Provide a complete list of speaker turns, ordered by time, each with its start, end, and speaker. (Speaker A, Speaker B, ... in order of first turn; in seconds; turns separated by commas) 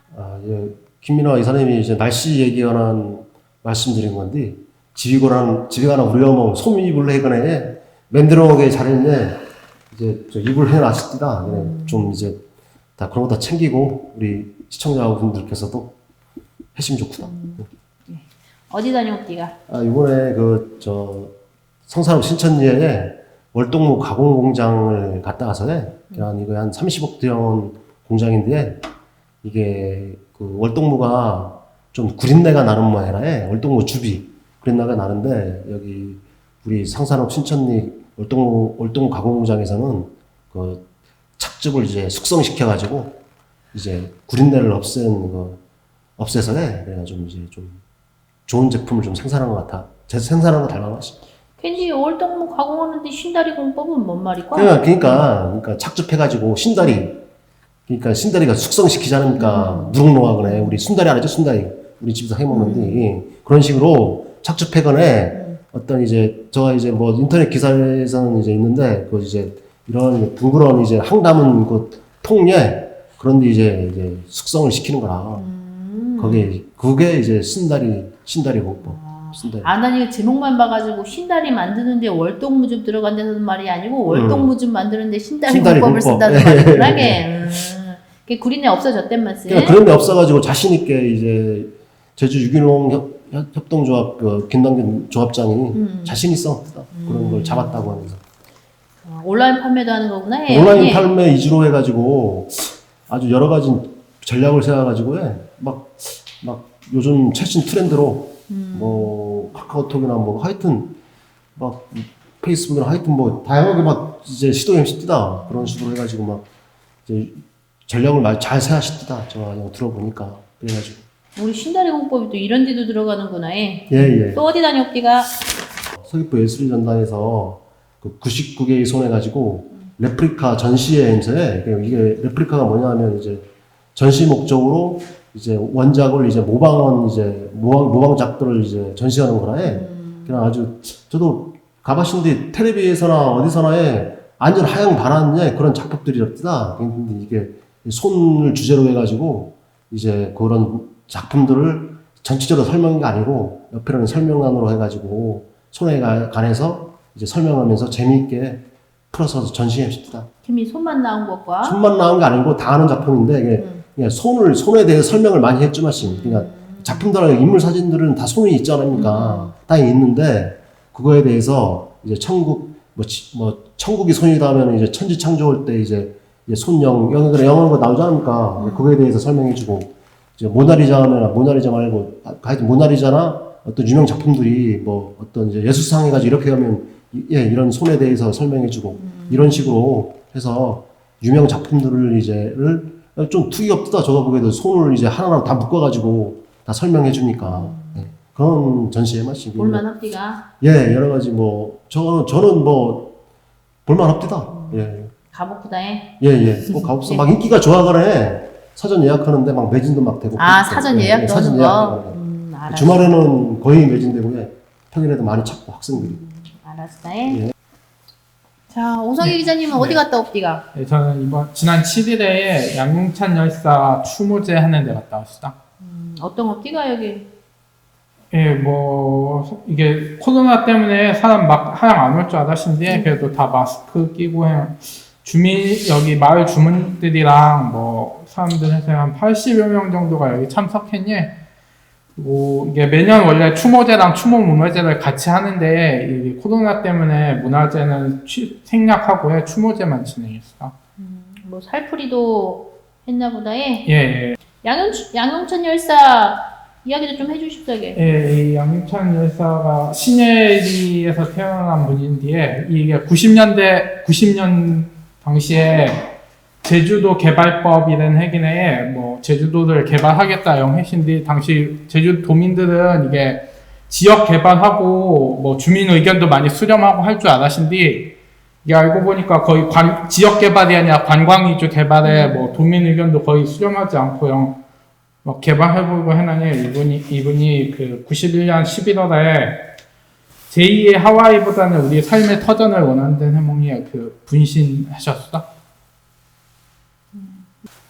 Speaker A: 0.1-12.4, Speaker B: 11.4-12.3, Speaker A: 13.0-15.9, Speaker A: 16.7-17.6, Speaker B: 17.2-19.6, Speaker A: 19.7-21.3, Speaker A: 21.9-28.8, Speaker A: 29.4-40.8, Speaker A: 41.4-43.2, Speaker A: 43.7-45.6, Speaker A: 46.2-47.8, Speaker A: 48.5-51.2, Speaker B: 51.6-55.3, Speaker A: 54.5-57.2, Speaker A: 57.9-75.4, Speaker B: 59.4-60.8, Speaker B: 62.5-63.1, Speaker B: 65.3-65.6, Speaker B: 75.3-76.5, Speaker A: 76.2-79.7, Speaker B: 78.8-89.8, Speaker A: 84.1-84.5, Speaker A: 85.5-87.3, Speaker A: 89.5-98.2, Speaker B: 95.7-96.2, Speaker B: 96.9-98.1, Speaker B: 99.0-101.1, Speaker A: 100.5-111.0, Speaker B: 108.5-109.1, Speaker A: 111.5-116.5, Speaker A: 117.0-121.0, Speaker B: 121.3-125.3, Speaker A: 123.9-124.4, Speaker A: 126.0-160.3, Speaker B: 139.6-140.4, Speaker B: 160.4-161.8, Speaker A: 161.6-199.9, Speaker B: 163.6-163.8, Speaker B: 166.0-167.1, Speaker B: 168.9-169.5, Speaker B: 178.6-178.9, Speaker B: 188.9-189.7, Speaker B: 197.4-198.1, Speaker B: 199.5-200.4, Speaker A: 200.6-203.2, Speaker A: 203.8-205.1, Speaker B: 204.5-207.3, Speaker A: 206.2-212.2, Speaker B: 210.3-213.2, Speaker A: 212.7-216.2, Speaker B: 215.9-217.4, Speaker A: 217.3-217.5, Speaker B: 218.7-220.6, Speaker C: 219.2-220.0, Speaker C: 220.7-225.5, Speaker B: 225.8-227.3, Speaker C: 228.3-241.3, Speaker B: 232.9-233.2, Speaker C: 242.2-250.7, Speaker B: 251.0-253.9, Speaker C: 253.8-254.4, Speaker B: 254.6-258.0, Speaker C: 257.9-266.0, Speaker C: 266.6-284.6, Speaker B: 282.0-282.5, Speaker C: 285.2-289.6, Speaker C: 290.5-295.4, Speaker B: 297.1-297.4